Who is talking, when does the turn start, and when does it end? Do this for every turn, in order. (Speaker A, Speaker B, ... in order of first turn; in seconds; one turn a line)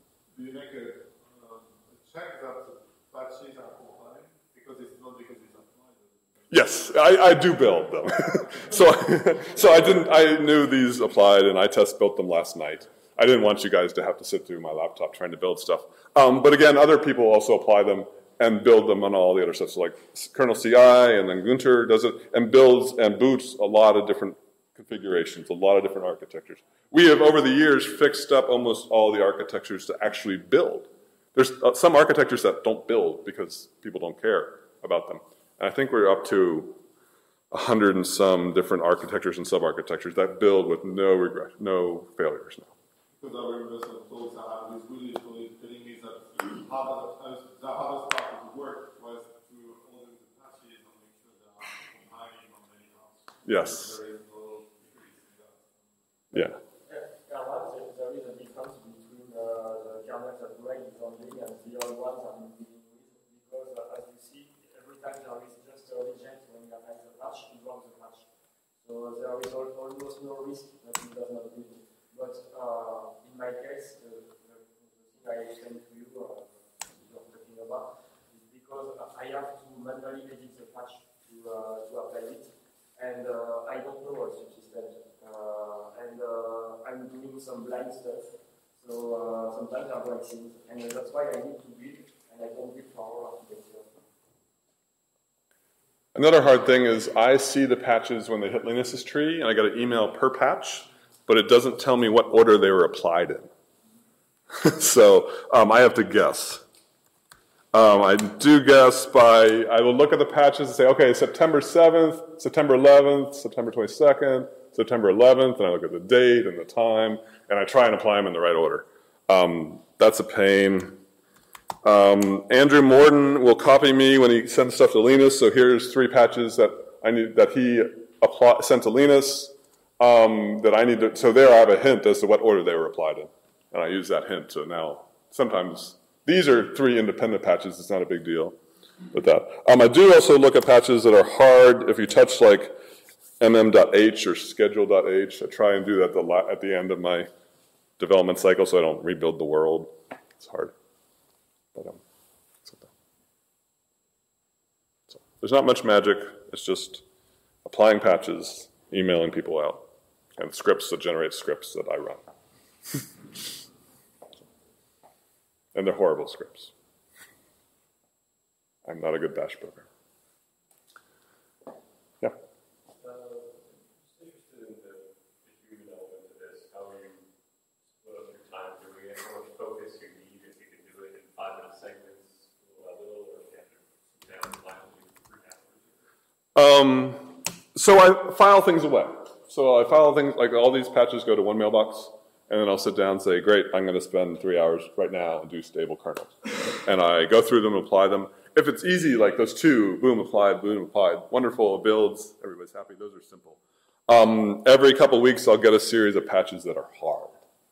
Speaker A: 0.3-6.3
Speaker B: 6.5-36.8
Speaker B: 37.5-42.7
Speaker A: 43.2-56.5
Speaker B: 53.5-54.0
Speaker B: 56.3-56.6
Speaker C: 56.9-68.3
Speaker C: 68.8-94.0
Speaker B: 96.2-103.5
Speaker B: 104.5-106.6
Speaker B: 107.7-121.0
Speaker B: 121.8-138.6
Speaker B: 139.1-142.8
Speaker B: 143.4-147.3
Speaker B: 148.0-150.7
Speaker B: 151.8-152.0
Speaker B: 152.7-152.9
Speaker B: 155.1-157.0
Speaker B: 157.7-159.8
Speaker B: 160.4-162.2
Speaker B: 165.7-166.7
Speaker B: 168.8-169.9
Speaker D: 173.0-177.2
Speaker D: 177.9-185.9
Speaker B: 186.6-207.4